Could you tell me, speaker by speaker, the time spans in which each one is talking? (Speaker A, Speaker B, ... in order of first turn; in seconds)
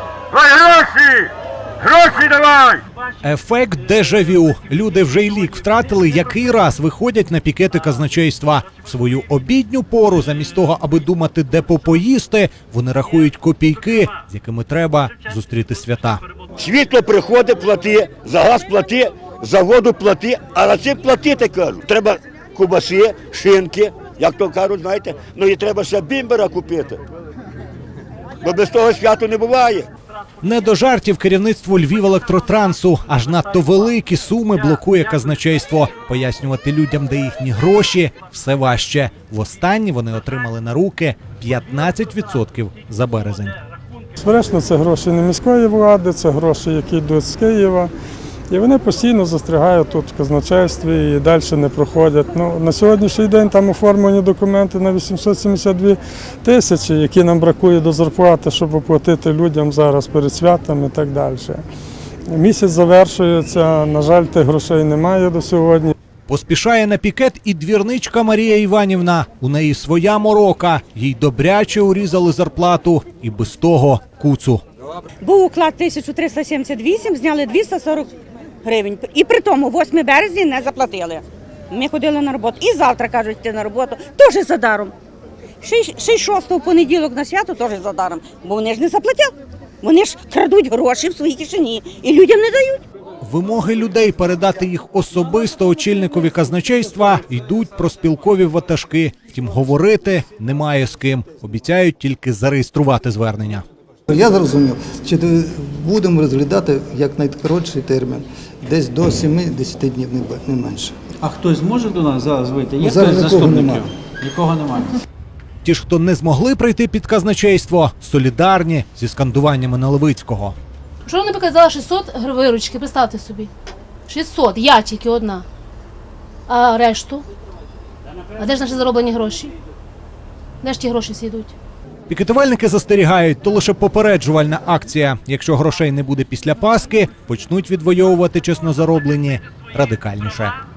Speaker A: 0.3-2.8, 16.6-27.0, 28.4-29.9
Speaker B: 3.2-16.2, 30.4-43.5, 66.3-74.6, 93.2-103.6, 115.6-120.5, 132.1-140.6
Speaker C: 44.1-47.9, 48.5-61.6, 62.3-65.9
Speaker D: 75.2-78.1, 78.6-84.9, 85.6-92.8
Speaker E: 104.1-111.0, 112.8-113.9
Speaker F: 111.2-114.9
Speaker G: 121.0-123.5, 124.1-125.4, 126.5-127.2, 128.4-129.5, 130.6-131.5